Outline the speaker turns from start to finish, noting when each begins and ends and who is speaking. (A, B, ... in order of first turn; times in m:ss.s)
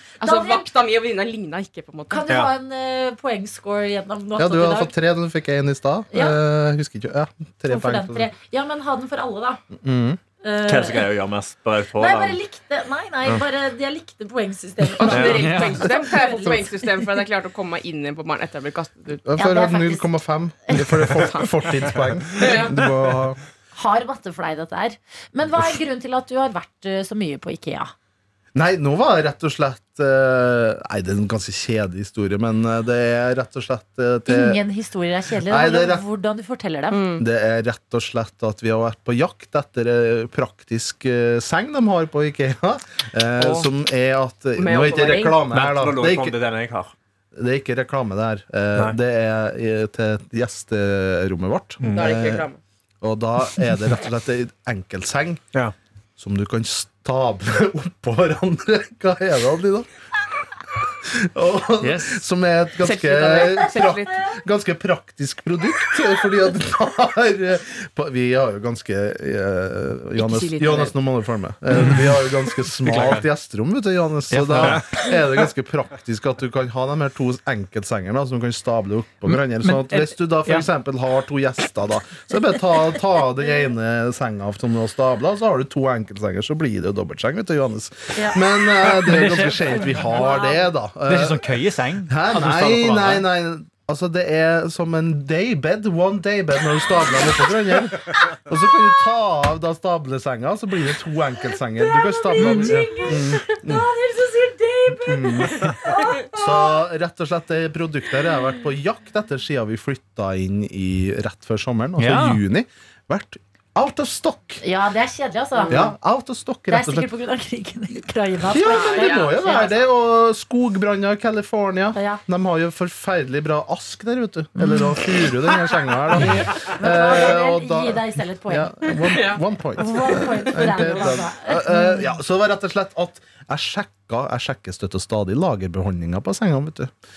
0:00.2-0:00.7 A
0:00.2-0:02.2 B
0:02.1-0:04.9 A
0:04.4-0:08.3 C
0:06.1-0:06.4 A
0:07.7-0:09.6 A
0:09.8-0:10.2 C
0:10.4-0:11.1 A
0:10.6-0:12.4 D
0:12.0-0:17.0 A
0:15.0-0:19.2 B
0:15.1-0:15.5 D
0:15.3-0:15.8 E
0:19.2-0:23.4 C
0:19.4-0:20.1 A
0:20.7-0:21.1 A
0:21.0-0:21.5 B
0:22.4-0:22.7 B
0:23.8-0:27.9 A
0:28.5-0:34.6 C
0:34.3-0:37.0 A
0:35.4-0:36.0 C
0:36.9-0:37.2 B
0:37.2-0:46.4 C
0:43.4-0:43.7 B
0:44.6-0:45.4 B
0:45.5-0:46.9 D
0:47.3-0:52.5 C
0:51.8-0:52.3 D
0:51.9-0:52.6 B
0:53.0-0:55.4 C
0:56.2-0:59.9 C
1:01.0-1:31.5 C
1:01.8-1:02.2 E
1:02.8-1:04.3 B
1:10.2-1:11.0 B
1:11.8-1:12.2 E
1:12.8-1:13.2 E
1:14.3-1:15.0 E
1:14.6-1:14.8 D
1:19.3-1:20.7 E
1:28.9-1:30.0 E
1:29.8-1:30.7 A
1:31.1-1:33.2 E
1:32.1-1:43.9 C
1:41.8-1:46.7 A
1:42.4-1:42.7 E
1:42.9-1:43.5 B
1:44.9-1:54.6 C
1:52.0-1:52.4 E
1:54.6-1:55.9 A
1:55.6-1:55.8 B
1:55.7-1:57.1 C
1:56.7-1:59.7 A
1:58.5-2:16.9 C
1:58.7-1:59.7 B
2:01.9-2:02.2 A
2:04.6-2:04.9 A
2:06.2-2:08.9 A
2:09.0-2:09.4 B
2:09.8-2:12.1 A